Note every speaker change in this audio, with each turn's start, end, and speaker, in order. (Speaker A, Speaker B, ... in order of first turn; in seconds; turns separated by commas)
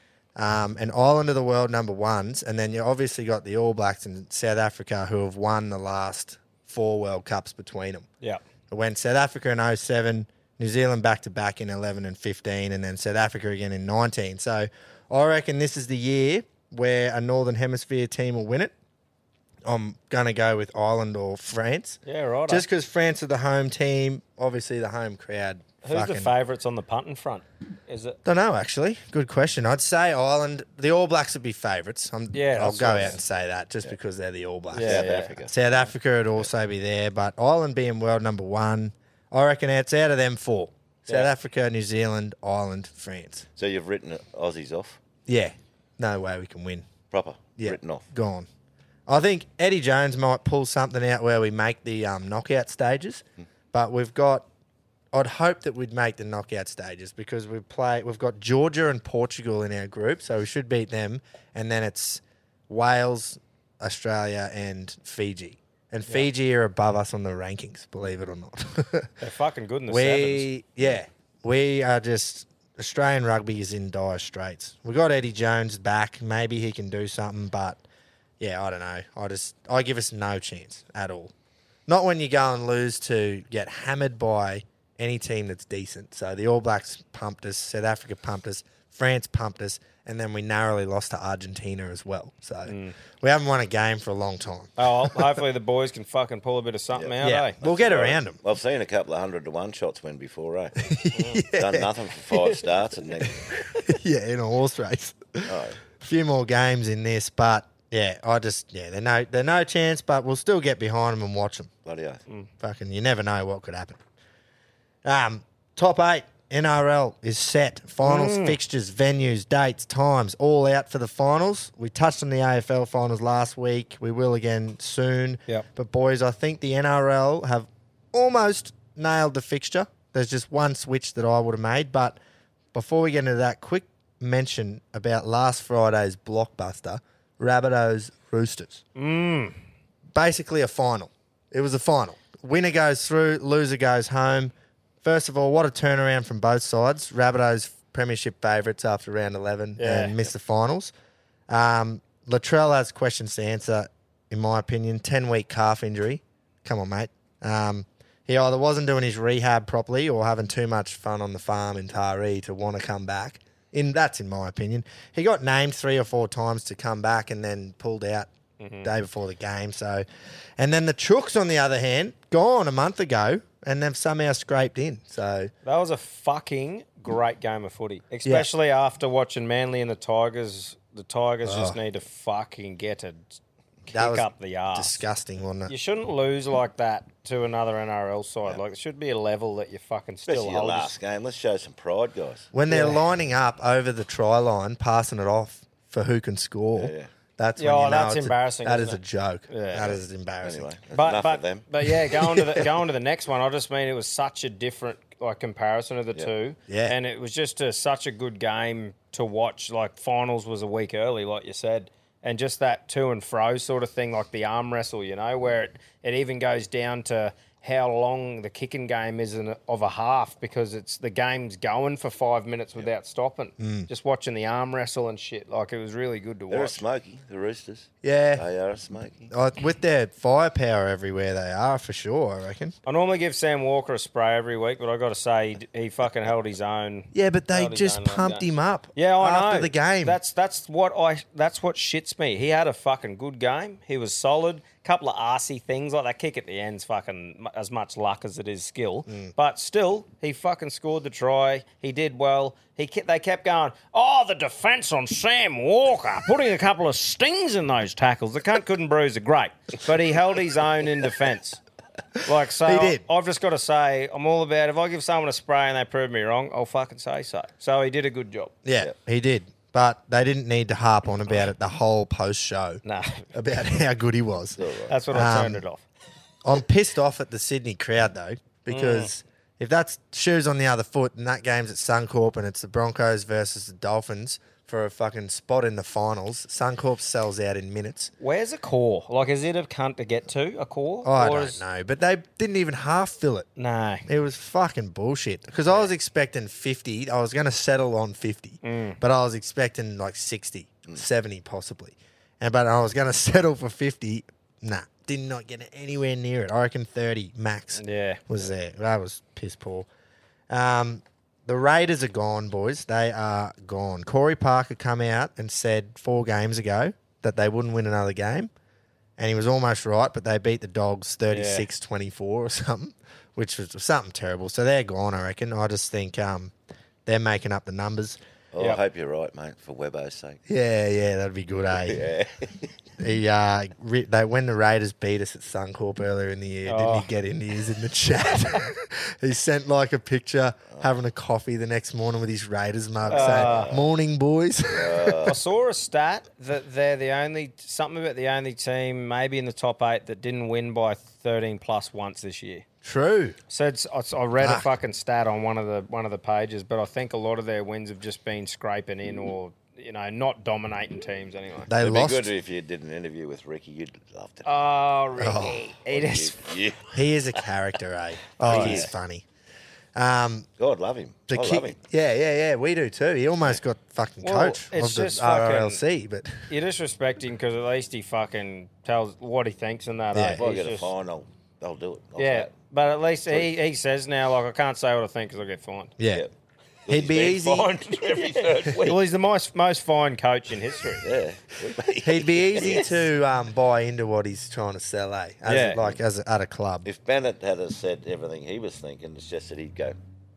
Speaker A: 0.3-8.1, Speaker A: 8.7-18.7, Speaker A: 19.6-26.3, Speaker B: 22.0-22.6, Speaker B: 25.8-28.2, Speaker A: 28.2-43.5, Speaker B: 32.3-33.2, Speaker B: 34.7-35.4, Speaker C: 34.8-35.9, Speaker C: 43.5-45.0, Speaker A: 45.2-46.9, Speaker C: 47.1-48.0, Speaker A: 47.6-48.5, Speaker A: 49.1-54.5, Speaker A: 55.1-69.1, Speaker B: 69.2-70.5, Speaker A: 69.9-77.8, Speaker A: 78.4-81.3, Speaker A: 81.9-95.1, Speaker B: 92.7-92.9, Speaker B: 94.8-97.7, Speaker C: 96.9-100.9, Speaker A: 97.2-98.4, Speaker A: 100.8-101.9, Speaker B: 101.1-101.4, Speaker C: 101.5-103.6, Speaker B: 102.3-102.6, Speaker A: 103.8-111.7, Speaker C: 105.5-105.8, Speaker C: 111.8-112.2, Speaker A: 112.6-114.0, Speaker A: 115.0-132.2, Speaker B: 118.0-118.6, Speaker A: 132.7-138.8, Speaker B: 138.9-139.6, Speaker A: 140.1-150.9, Speaker B: 149.8-150.2, Speaker A: 151.5-168.3, Speaker B: 168.6-168.9, Speaker A: 168.8-170.0, Speaker A: 170.6-175.5, Speaker B: 175.6-185.0, Speaker A: 181.4-181.8, Speaker A: 183.9-185.7, Speaker B: 185.7-190.9, Speaker C: 190.3-192.5, Speaker A: 192.5-200.7, Speaker B: 192.7-193.0, Speaker C: 196.8-197.1, Speaker B: 197.6-200.0, Speaker C: 199.8-201.7, Speaker B: 200.9-226.8, Speaker A: 206.7-206.9, Speaker A: 223.6-223.9, Speaker C: 226.5-229.3, Speaker A: 228.0-228.4, Speaker A: 229.3-232.7, Speaker B: 232.9-261.6, Speaker A: 237.1-240.2, Speaker A: 249.1-249.3, Speaker B: 262.2-268.5, Speaker A: 262.6-263.0, Speaker A: 268.6-272.8, Speaker B: 272.8-273.3, Speaker A: 273.3-274.6, Speaker C: 274.6-274.9, Speaker B: 274.9-275.8, Speaker A: 275.1-275.6, Speaker A: 276.4-288.1, Speaker B: 278.7-279.1, Speaker B: 288.2-291.6, Speaker A: 291.0-293.5, Speaker B: 293.6-294.1, Speaker A: 294.1-309.9, Speaker B: 298.6-299.0, Speaker B: 307.8-308.2, Speaker A: 310.5-318.5, Speaker A: 319.2-326.5, Speaker B: 321.3-321.7, Speaker A: 327.0-328.2, Speaker C: 328.5-330.4, Speaker A: 330.5-332.0, Speaker C: 331.7-332.7, Speaker A: 333.0-345.3, Speaker B: 336.6-337.1, Speaker C: 343.0-343.9, Speaker B: 343.1-343.7, Speaker C: 344.7-345.4, Speaker B: 345.2-352.6, Speaker A: 352.8-353.4, Speaker B: 353.5-361.7, Speaker A: 354.4-354.7, Speaker A: 361.7-362.3, Speaker C: 361.8-364.6, Speaker B: 364.4-366.5, Speaker A: 365.2-365.6, Speaker C: 365.9-366.9, Speaker A: 366.9-369.2, Speaker C: 368.4-368.9, Speaker B: 368.4-368.9, Speaker A: 369.9-370.5, Speaker C: 370.6-371.8, Speaker A: 371.3-376.5, Speaker B: 374.2-375.8, Speaker B: 376.5-380.9, Speaker A: 380.1-380.4, Speaker C: 380.3-382.5, Speaker B: 382.2-385.9, Speaker C: 383.2-383.5, Speaker A: 386.0-386.2, Speaker C: 386.9-389.0, Speaker A: 386.9-387.7, Speaker B: 388.2-391.0, Speaker C: 390.9-392.9, Speaker A: 392.0-396.9, Speaker B: 392.6-392.9, Speaker B: 395.4-395.8, Speaker C: 396.8-400.0